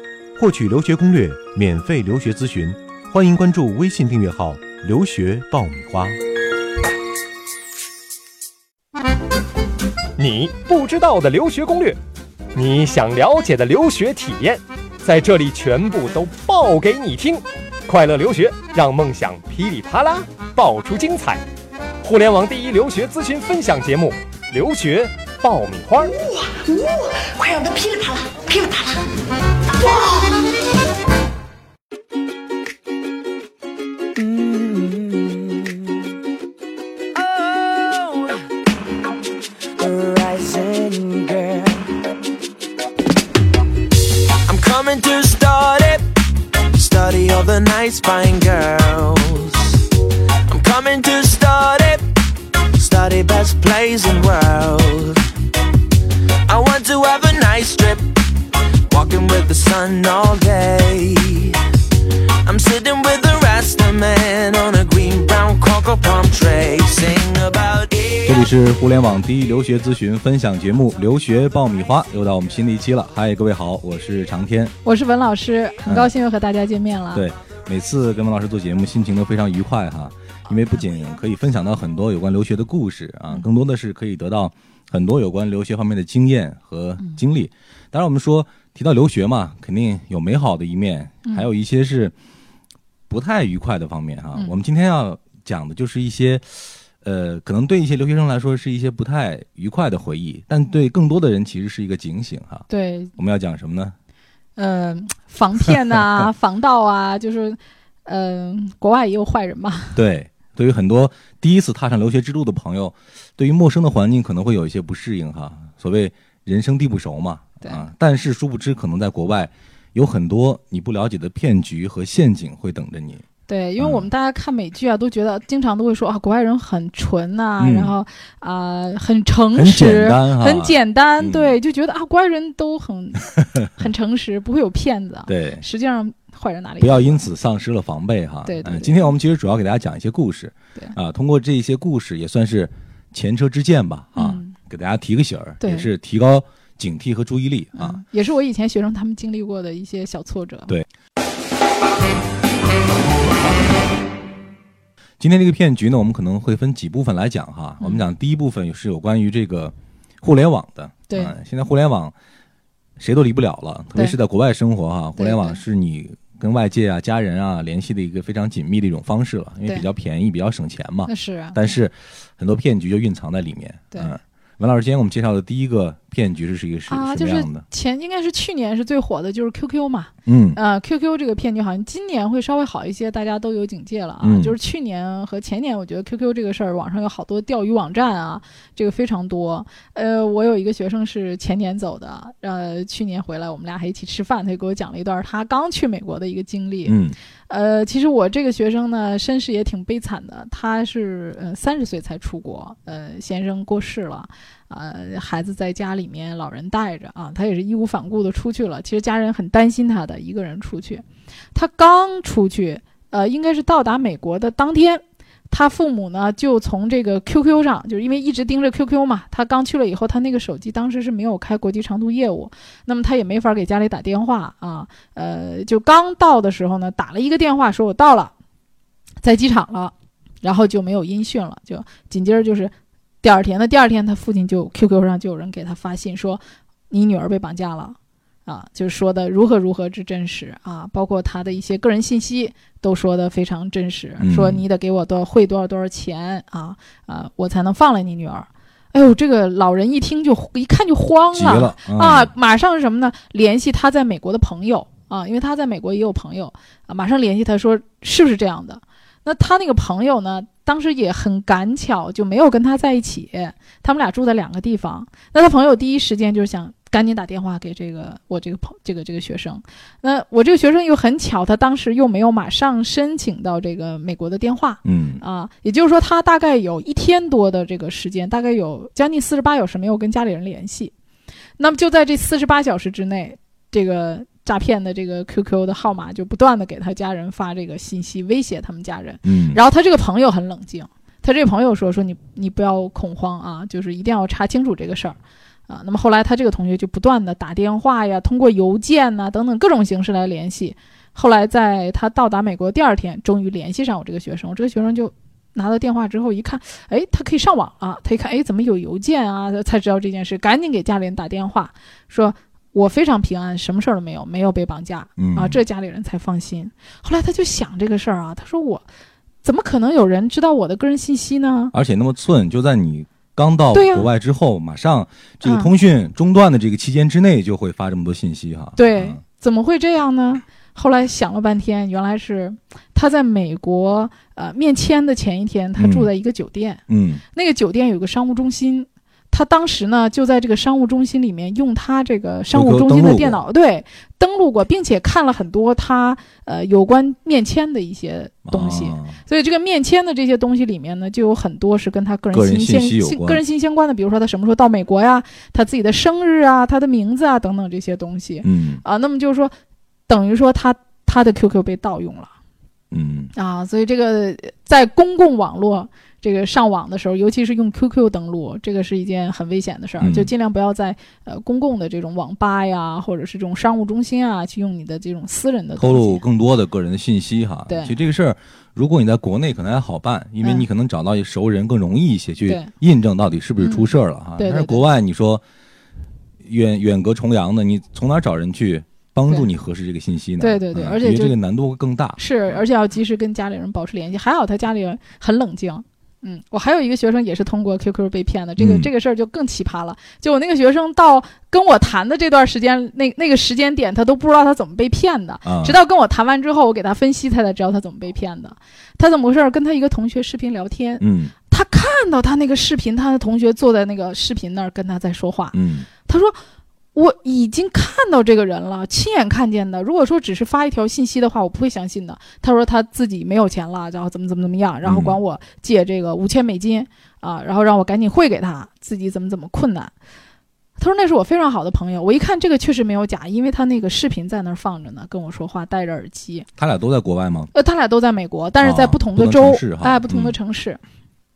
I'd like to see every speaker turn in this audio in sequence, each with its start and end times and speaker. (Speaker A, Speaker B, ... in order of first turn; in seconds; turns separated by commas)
Speaker A: 0.4-6.2, Speaker B: 10.2-12.0, Speaker B: 12.5-21.4, Speaker B: 22.0-26.1, Speaker C: 26.0-30.5, Speaker D: 34.2-35.9, Speaker D: 37.1-38.4, Speaker D: 39.8-41.9, Speaker D: 44.5-46.1, Speaker D: 46.7-49.9, Speaker D: 50.5-52.0, Speaker D: 52.7-55.3, Speaker D: 56.5-58.2, Speaker D: 58.9-61.6, Speaker D: 62.4-68.5, Speaker A: 68.3-74.7, Speaker E: 74.8-77.2, Speaker A: 75.9-76.1, Speaker A: 77.1-92.1, Speaker A: 93.1-103.9, Speaker E: 102.7-103.1, Speaker E: 104.6-110.0, Speaker A: 110.0-123.2, Speaker E: 123.5-137.3, Speaker A: 123.8-124.1, Speaker A: 127.6-127.9, Speaker A: 129.6-131.6, Speaker A: 133.4-133.7, Speaker A: 135.3-135.6, Speaker A: 136.8-148.0, Speaker E: 138.4-139.1, Speaker E: 144.2-144.6, Speaker E: 145.6-145.9, Speaker E: 147.8-150.7, Speaker A: 155.2-162.1, Speaker E: 161.1-161.3, Speaker A: 163.0-177.6, Speaker E: 165.2-165.6, Speaker E: 171.1-171.6, Speaker E: 176.9-197.0, Speaker A: 180.3-180.6, Speaker A: 184.2-184.6, Speaker A: 196.9-197.2, Speaker E: 197.5-228.3, Speaker E: 229.2-280.9, Speaker A: 244.2-244.6, Speaker A: 251.3-252.3, Speaker A: 274.8-275.2, Speaker E: 281.6-318.9, Speaker A: 289.2-289.6, Speaker A: 315.2-315.6, Speaker E: 319.4-321.7, Speaker A: 321.7-329.2, Speaker E: 323.7-324.1, Speaker E: 325.4-325.7, Speaker E: 328.8-336.8, Speaker A: 335.8-336.1, Speaker A: 336.9-337.2, Speaker E: 337.3-359.5, Speaker A: 342.5-343.4, Speaker A: 348.5-349.2, Speaker A: 352.3-353.4, Speaker A: 358.4-358.8, Speaker E: 360.1-362.3, Speaker A: 362.9-363.3, Speaker E: 363.4-376.2, Speaker A: 370.0-370.3, Speaker A: 375.8-385.4, Speaker E: 377.7-377.9, Speaker E: 382.4-382.7, Speaker E: 383.6-384.8, Speaker A: 386.4-392.6, Speaker E: 390.4-391.4, Speaker E: 392.2-416.4, Speaker A: 398.6-398.9, Speaker A: 405.4-405.8, Speaker A: 411.0-411.3, Speaker A: 415.5-415.9, Speaker E: 416.9-429.9, Speaker A: 424.8-425.2, Speaker E: 430.8-436.5, Speaker A: 436.6-437.5, Speaker E: 437.5-440.8, Speaker A: 438.6-440.4